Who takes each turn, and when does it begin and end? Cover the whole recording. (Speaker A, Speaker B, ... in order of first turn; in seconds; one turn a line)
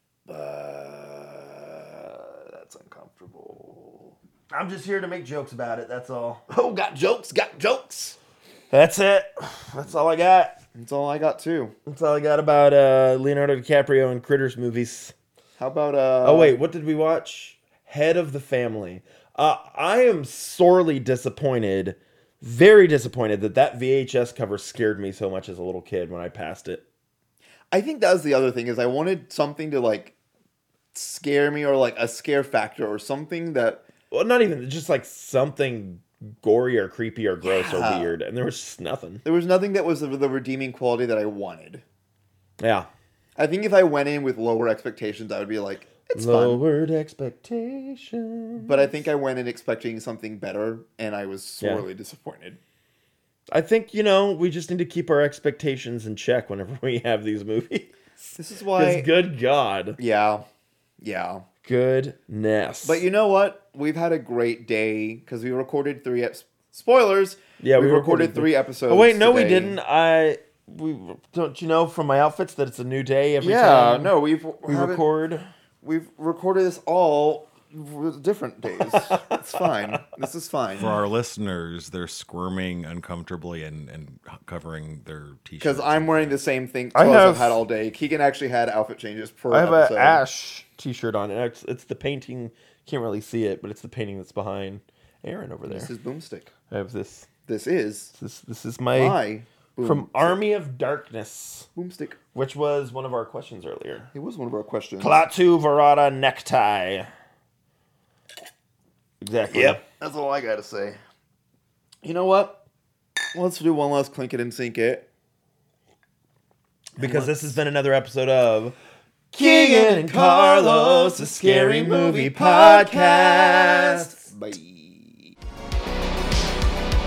Speaker A: 0.3-4.2
Speaker B: 4.5-6.4
Speaker A: 6.5-8.2
Speaker B: 8.7-10.6
Speaker A: 10.7-11.7
Speaker B: 11.9-15.1
Speaker A: 15.6-16.5
Speaker B: 16.2-26.8
Speaker A: 27.7-30.1
Speaker A: 30.9-33.8
Speaker B: 34.1-39.2
Speaker A: 37.4-38.1
Speaker A: 39.2-41.8
Speaker B: 42.6-42.9
Speaker A: 43.4-46.6
Speaker B: 46.1-48.8
Speaker A: 48.6-52.6
Speaker B: 51.6-51.9
Speaker B: 53.5-60.0
Speaker A: 58.4-59.1
Speaker A: 60.0-60.4
Speaker A: 61.0-61.4
Speaker B: 61.6-63.0
Speaker A: 62.8-69.8
Speaker B: 67.6-75.5
Speaker A: 73.4-75.1
Speaker A: 75.8-81.0
Speaker B: 78.8-80.0
Speaker C: 80.8-86.4
Speaker A: 85.6-90.2
Speaker B: 86.9-87.6
Speaker B: 89.5-95.9
Speaker A: 95.7-96.5
Speaker B: 96.7-97.3
Speaker A: 97.5-98.1
Speaker B: 98.1-99.2
Speaker A: 98.9-100.4
Speaker B: 99.8-101.7
Speaker A: 101.7-102.2
Speaker B: 102.3-104.1
Speaker A: 104.1-105.2
Speaker B: 105.0-107.1
Speaker B: 109.2-109.8
Speaker A: 109.5-111.0
Speaker A: 112.0-112.6
Speaker A: 113.3-115.1
Speaker A: 117.0-117.6
Speaker B: 117.0-118.8
Speaker B: 119.3-124.3
Speaker A: 119.3-125.3